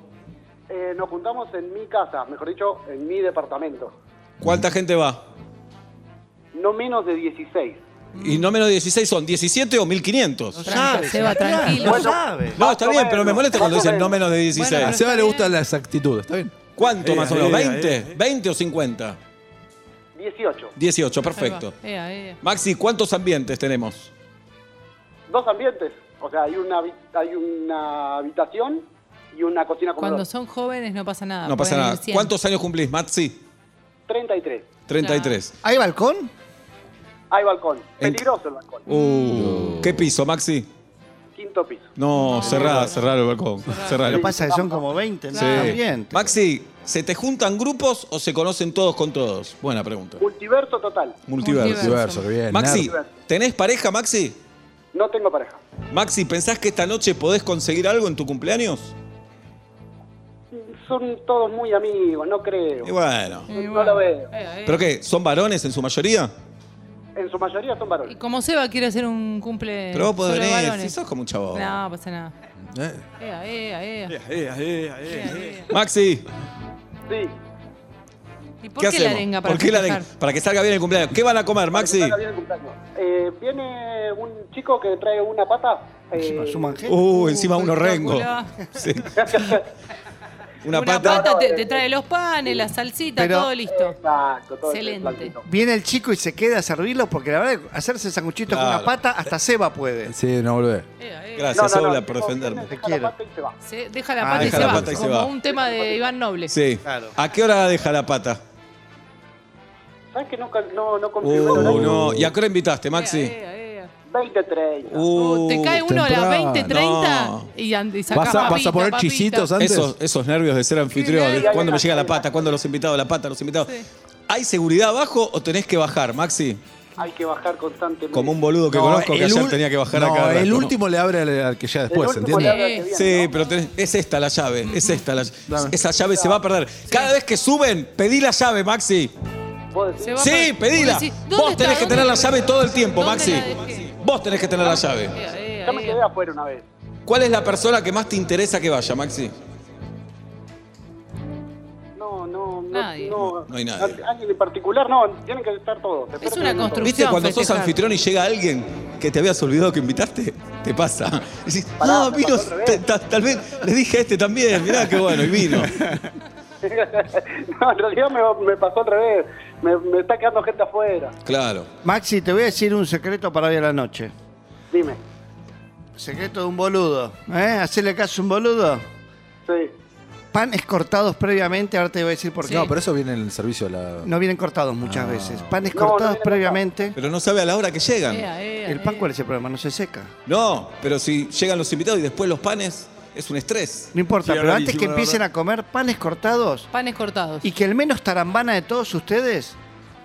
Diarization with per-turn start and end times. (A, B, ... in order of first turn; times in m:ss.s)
0:00.7-0:03.9 A
0:04.4-0:05.2 B
0:06.5-0:07.8 A
0:08.2-0:08.5 C
0:08.2-0:10.9 B
0:10.6-0:12.6 D
0:10.7-0:12.1 C
0:11.7-0:14.2 A
0:12.6-0:15.0 B
0:14.5-0:15.5 C
0:14.8-0:18.1 E
0:16.8-0:19.2 B
0:20.2-0:20.7 A
0:20.8-0:21.8 B
0:21.4-0:22.4 C
0:22.4-0:24.1 B
0:25.3-0:30.2 A
0:30.0-0:32.3 C
0:31.5-0:33.4 B
0:34.1-0:34.7 A
0:34.9-0:35.5 B
0:35.0-0:35.4 C
0:35.6-0:36.3 D
0:37.3-0:38.8 A
0:38.9-0:39.7 C
0:38.9-0:40.7 B
0:39.3-0:40.1 E
0:41.4-0:42.9 A
0:42.0-0:44.3 B
0:42.2-0:43.1 C
0:43.7-0:44.1 C
0:44.1-0:44.8 A
0:44.1-0:46.3 D
0:45.3-0:45.8 C
0:45.3-0:50.2 B
0:50.2-0:51.2 A
0:51.3-0:54.4 B
0:51.4-0:52.3 C
0:51.6-0:52.9 E
0:52.8-0:53.1 A
0:54.9-0:55.6 A
0:55.9-0:58.9 B
1:00.5-1:02.9 A
1:02.8-1:03.5 B
1:03.5-1:04.3 A
1:03.5-1:04.8 C
1:04.7-1:06.3 B
1:07.2-1:08.2 A
1:08.1-1:10.9 C
1:09.9-1:11.7 B
1:11.5-1:12.3 C
1:12.7-1:13.0 E
1:13.2-1:14.2 C
1:14.2-1:16.3 B
1:14.4-1:15.3 E
1:15.1-1:15.7 C
1:17.1-1:17.3 A
1:18.6-1:20.1 C
1:18.8-1:22.2 B
1:21.7-1:26.8 A
1:26.2-1:27.4 D
1:26.9-1:29.6 B
1:27.1-1:28.5 C
1:29.2-1:29.6 A
1:30.6-1:31.3 B
1:30.7-1:34.0 C
1:31.0-1:31.8 A
1:33.2-1:33.6 D
1:33.7-1:35.4 A
1:34.7-1:35.3 C
1:35.5-1:40.1 D
1:38.5-1:38.9 B
1:40.1-1:40.9 E
1:41.0-1:41.6 C
1:41.4-1:42.7 B
1:41.5-1:43.6 A
1:42.7-1:43.1 D
1:43.6-1:46.5 C
1:44.2-1:45.0 D
1:44.3-1:45.3 B
1:44.4-1:45.0 E
1:45.5-1:46.1 A
1:46.5-1:48.4 B
1:46.8-1:47.2 D
1:50.1-1:51.9 A
1:51.2-1:53.3 B
1:51.3-1:52.3 E
1:52.9-1:53.9 C
1:54.1-1:55.1 A
1:54.9-1:55.8 B
1:55.1-1:59.5 C
1:55.8-1:56.8 E
1:56.7-1:57.5 B
1:58.1-1:59.9 E
1:59.6-2:03.7 B
2:01.0-2:01.8 C
2:01.2-2:02.5 A
2:04.3-2:06.6 B
2:07.0-2:08.4 A
2:08.1-2:10.8 B
2:08.7-2:12.6 E
2:11.9-2:13.3 A
2:12.3-2:12.9 C
2:12.9-2:19.1 B
2:14.7-2:15.0 C
2:15.5-2:15.8 E
2:16.1-2:16.4 A
2:19.7-2:20.3 A
2:20.0-2:22.4 C
2:20.2-2:25.2 B
2:23.0-2:23.9 C
2:24.7-2:26.0 C
2:25.6-2:26.7 A
2:27.1-2:29.3 B
2:32.0-2:36.9 A
2:32.7-2:33.2 C
2:33.2-2:34.0 B
2:36.2-2:37.8 C
2:36.8-2:45.8 B
2:41.8-2:42.8 A
2:45.8-2:46.0 D
2:46.6-2:51.1 A
2:51.2-2:51.7 B
2:51.8-2:54.1 D
2:54.7-2:55.0 A
2:56.0-2:58.8 D
2:59.5-2:59.7 A
3:00.3-3:02.7 D
3:02.5-3:02.7 C
3:02.5-3:04.1 E
3:04.0-3:07.0 D
3:04.8-3:05.7 E
3:05.7-3:06.6 A
3:07.0-3:08.3 B
3:08.1-3:09.0 C
3:08.7-3:10.1 D
3:10.3-3:13.9 B
3:14.0-3:16.7 D
3:14.2-3:15.2 E
3:16.7-3:17.5 C
3:17.4-3:19.6 D